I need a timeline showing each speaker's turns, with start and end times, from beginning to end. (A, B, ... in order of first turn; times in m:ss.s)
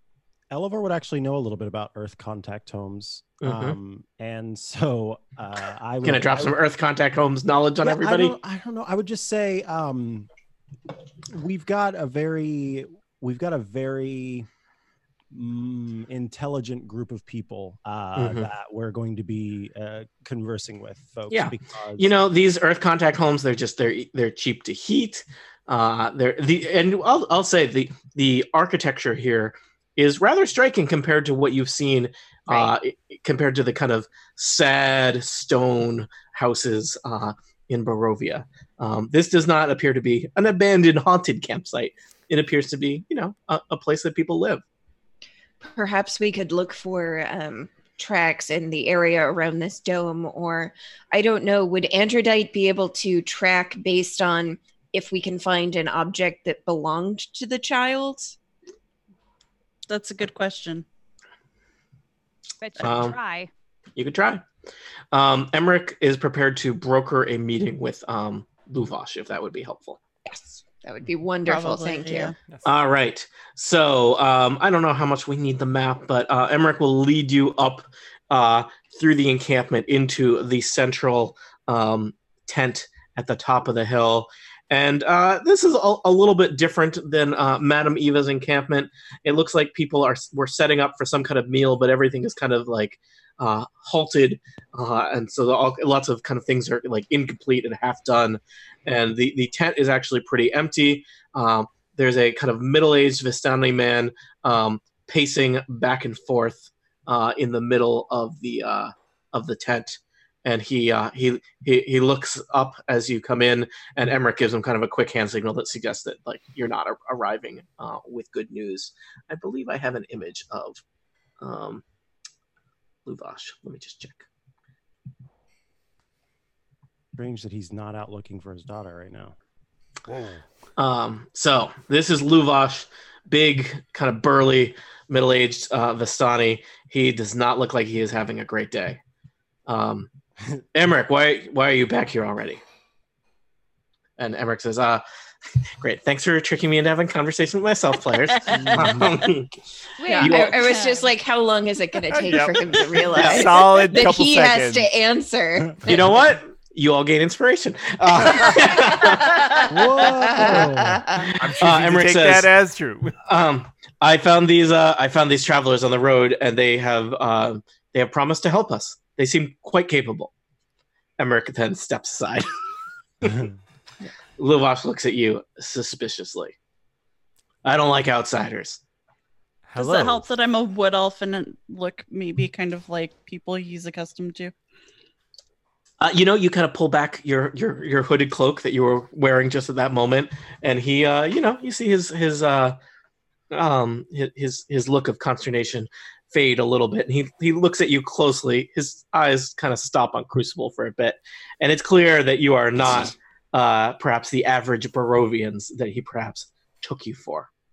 0:00.5-0:06.6 A
0:03.4-0:03.8 B
0:06.0-0:08.3 B
0:07.8-0:10.3 A
0:11.3-0:14.5 A
0:15.3-0:22.1 A
0:18.2-0:18.5 B
0:21.3-0:44.6 B
0:45.6-0:58.4 C
0:59.9-1:00.8 D
1:02.6-1:03.5 E
1:02.8-1:03.2 B
1:04.0-1:04.4 B
1:05.1-1:10.0 B
1:10.2-1:12.3 C
1:11.4-1:12.3 D
1:12.6-2:00.8 B
2:01.4-2:01.8 B
2:03.0-2:04.2 B
2:07.1-2:09.4 A
2:10.1-2:10.4 F
2:10.8-2:19.0 B
2:19.7-2:20.1 B
2:20.7-2:22.6 B
2:24.2-2:25.0 B
2:25.8-2:29.5 B
2:28.5-2:29.0 D
2:30.0-2:31.0 E
2:30.0-2:35.8 C
2:30.2-2:30.5 B
2:32.1-2:34.9 F
2:33.1-2:33.5 B
2:35.8-2:39.7 B
2:38.5-2:41.3 C
2:39.7-2:41.2 A
2:41.2-2:42.5 B
2:41.4-2:43.2 F
2:43.2-2:50.3 B
2:51.2-2:52.5 B
2:54.4-2:56.5 B
2:57.6-2:58.8 B
2:59.6-3:00.2 F
2:59.8-3:04.5 D
3:06.0-3:12.8 B
3:13.5-3:27.5 B